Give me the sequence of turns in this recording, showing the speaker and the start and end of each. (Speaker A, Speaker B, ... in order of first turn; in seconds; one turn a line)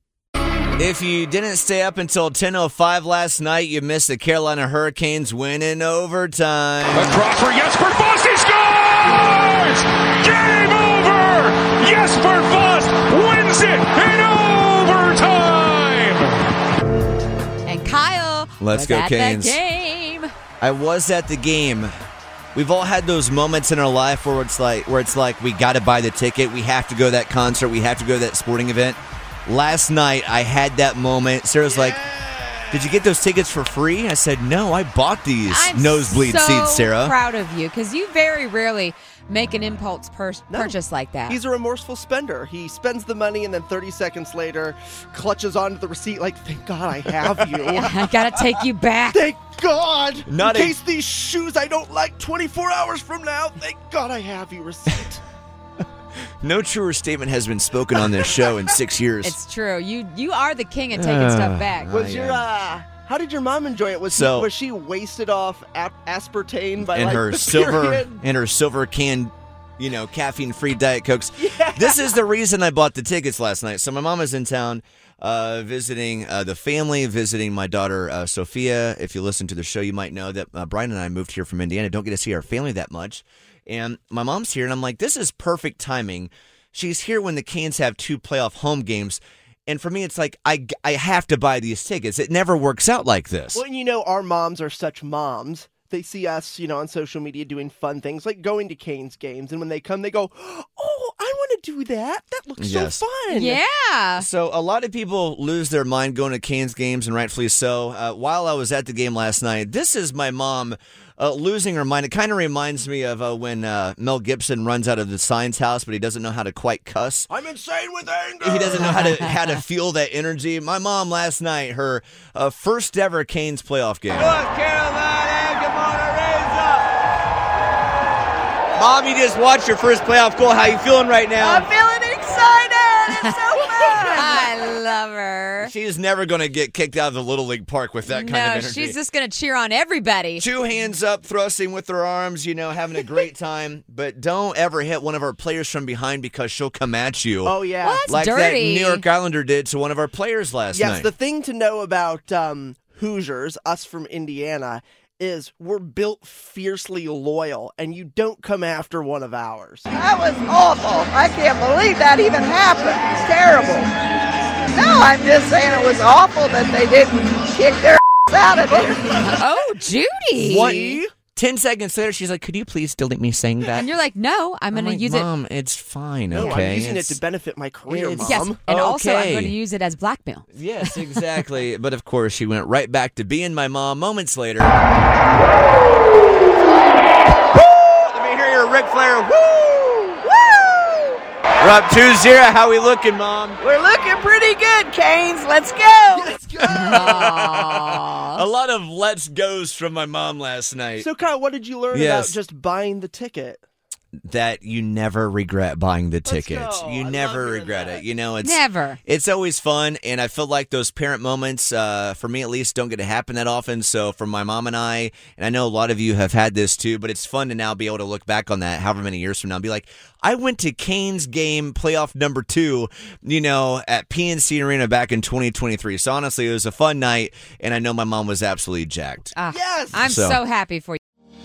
Speaker A: 0.8-7.2
Speaker B: 6.9-16.4
Speaker C: 17.7-20.3
Speaker A: 18.6-19.6
Speaker A: 20.6-21.9
Speaker A: 22.6-32.0
Speaker A: 32.7-37.2
Speaker C: 35.5-41.4
Speaker D: 40.5-48.1
Speaker C: 47.7-49.2
Speaker D: 49.1-55.2
Speaker A: 50.3-50.8
Speaker A: 56.4-59.4
Speaker C: 59.2-61.9
Speaker A: 60.9-62.4
Speaker D: 61.9-68.1
Speaker A: 64.1-64.5
Speaker A: 66.9-93.6
Speaker D: 71.4-72.2
Speaker D: 93.5-103.6
Speaker A: 102.6-103.0
Speaker C: 103.3-104.3
Speaker A: 104.2-117.3
Speaker D: 117.3-119.2
Speaker A: 118.4-126.9
Speaker A: 128.8-131.7
Speaker E: 131.4-134.5
Speaker C: 133.1-133.4
Speaker D: 133.5-134.4
Speaker C: 134.1-135.7
Speaker A: 135.6-139.0
Speaker C: 138.1-140.5
Speaker A: 140.4-151.1
Speaker D: 147.4-148.1
Speaker C: 147.8-149.0
Speaker D: 150.7-159.9
Speaker E: 159.9-163.9
Speaker E: 164.7-169.1
Speaker C: 169.1-171.0
Speaker A: 170.4-173.9
Speaker C: 173.8-175.3
Speaker A: 174.7-177.2
Speaker D: 176.3-178.6
Speaker C: 176.4-176.7
Speaker A: 177.9-179.6
Speaker C: 178.2-181.2
Speaker A: 180.5-184.8
Speaker A: 187.6-190.0
Speaker E: 190.4-191.2
Speaker A: 191.6-193.6
Speaker E: 193.6-196.3
Speaker D: 196.1-197.4
Speaker C: 196.7-198.4
Speaker A: 196.9-201.1
Speaker D: 201.0-203.6
Speaker A: 201.9-202.4
Speaker A: 204.3-229.4
Speaker D: 206.3-208.0
Speaker C: 208.4-209.0
Speaker C: 229.4-231.0
Speaker D: 229.5-230.0
Speaker A: 229.9-230.4